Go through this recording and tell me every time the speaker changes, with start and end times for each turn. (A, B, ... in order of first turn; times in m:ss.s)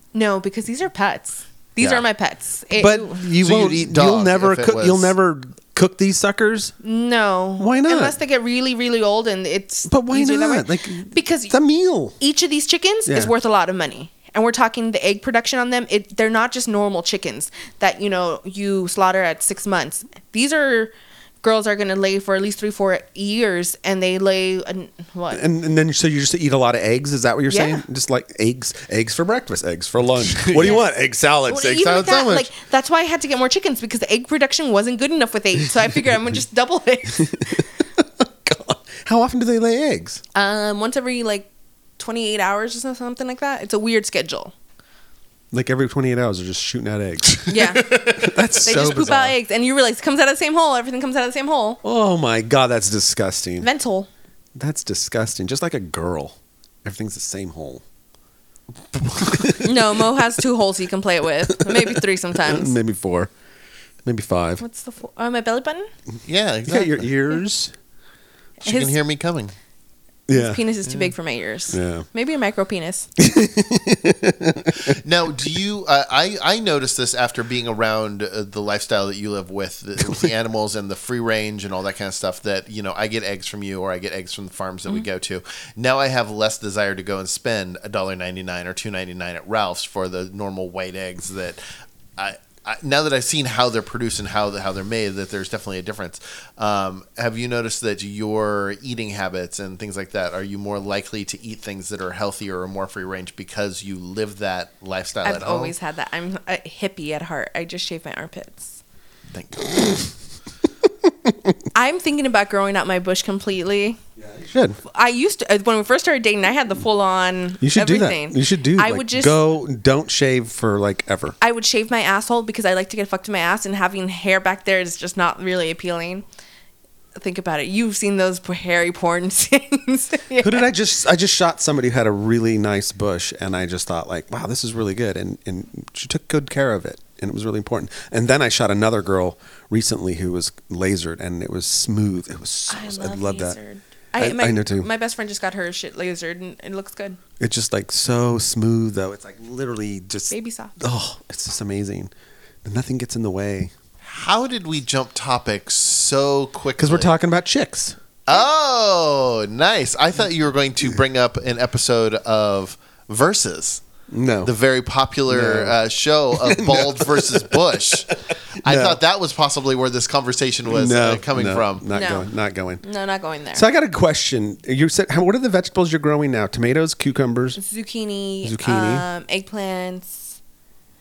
0:00.1-0:03.2 A
0:01.8-0:02.0 B
0:02.8-0:06.7 C
0:03.4-0:05.1 B
0:06.8-0:11.6 A
0:07.6-0:08.2 C
0:09.9-0:12.2 C
0:12.2-0:25.4 A
0:13.1-0:13.3 C
0:25.3-0:32.5 C
0:27.5-0:27.8 A
0:30.4-0:30.7 B
0:30.6-0:30.8 A
0:31.5-0:37.7 A
0:37.2-0:40.2 C
0:40.4-0:44.5 A
0:45.5-0:49.4 C
0:47.5-0:51.8 A
0:51.8-0:53.7 C
0:53.6-0:54.1 A
0:54.6-0:57.8 C
0:59.1-0:59.7 C
0:59.6-1:02.8 A
1:01.6-1:03.3 C
1:04.0-1:04.6 C
1:04.6-1:05.9 A
1:06.3-1:07.1 B
1:06.7-1:07.7 C
1:08.6-1:09.0 A
1:08.6-1:09.5 B
1:10.3-1:10.6 C
1:10.3-1:13.1 A
1:11.7-1:12.1 C
1:13.2-1:15.0 C
1:14.9-1:31.6 B
1:32.2-1:45.7 B
1:45.2-1:48.8 A
1:49.3-1:50.1 B
1:51.7-1:54.0 A
1:54.2-1:54.8 C
1:54.8-1:59.4 A
1:57.6-2:01.4 C
2:01.4-2:06.2 A
2:07.2-2:10.7 A
2:10.4-2:23.6 C
2:22.7-2:27.2 A
2:24.2-2:24.9 C
2:27.4-2:32.1 C
2:30.3-2:30.8 A
2:32.6-2:33.7 C
2:34.0-2:37.1 B
2:36.8-2:38.0 C
2:38.3-2:43.8 B
2:44.1-2:44.5 C
2:44.4-2:51.9 B
2:45.3-2:45.8 C
2:46.3-2:49.0 C
2:50.7-2:52.8 C
2:51.9-2:52.3 A
2:52.8-2:53.7 A
2:53.6-2:57.6 C
2:57.6-3:00.4 A
2:58.4-2:59.1 C